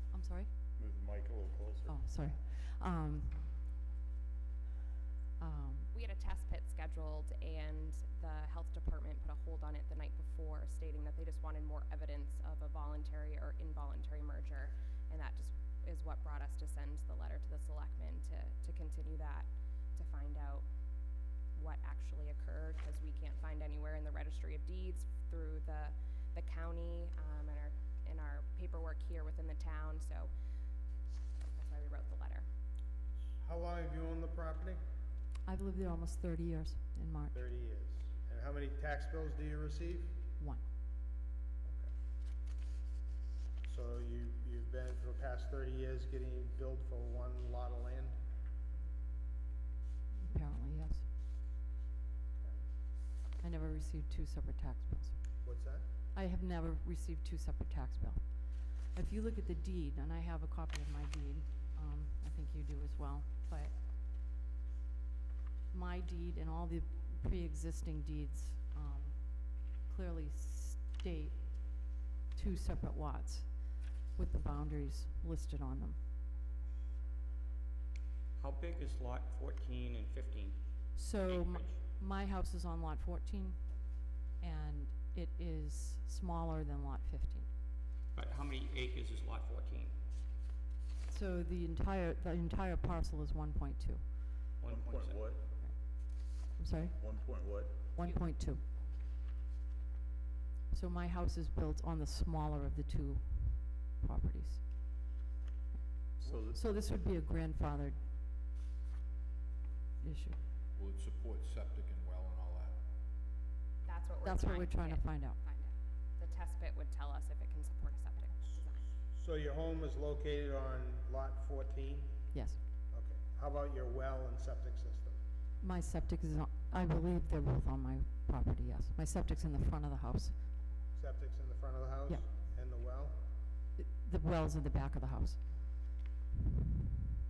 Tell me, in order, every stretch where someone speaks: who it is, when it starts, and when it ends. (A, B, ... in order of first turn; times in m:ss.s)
0:00.1-0:00.5 A
0:00.8-0:02.0 B
0:01.8-0:03.4 A
0:05.4-0:05.9 A
0:05.9-0:20.6 C
0:21.5-0:30.3 C
0:31.5-0:32.5 C
0:33.4-0:34.8 D
0:35.4-0:37.4 A
0:37.3-0:40.2 D
0:41.6-0:41.9 D
0:43.6-0:48.2 D
0:50.2-0:51.0 A
0:52.4-0:52.6 D
0:53.4-0:55.1 A
0:55.4-0:55.8 D
0:56.1-1:03.7 A
1:05.7-1:09.1 A
1:09.9-1:11.4 A
1:12.3-1:13.5 A
1:14.2-1:16.0 A
1:18.4-1:20.6 E
1:21.0-1:23.6 A
1:21.2-1:21.8 E
1:24.4-1:27.5 A
1:28.1-1:29.9 E
1:31.1-1:34.0 A
1:34.6-1:35.3 E
1:34.7-1:35.4 B
1:36.6-1:37.1 A
1:37.0-1:37.8 B
1:38.0-1:38.6 A
1:40.7-1:44.6 A
1:46.2-1:46.6 B
1:46.2-1:48.0 A
1:50.0-1:50.4 A
1:50.8-1:52.8 F
1:53.8-1:58.9 C
1:54.2-1:55.4 A
1:59.1-2:02.1 D
2:02.3-2:02.6 A
2:02.9-2:05.2 D
2:05.6-2:10.4 A
2:11.0-2:13.2 D
2:13.8-2:15.4 A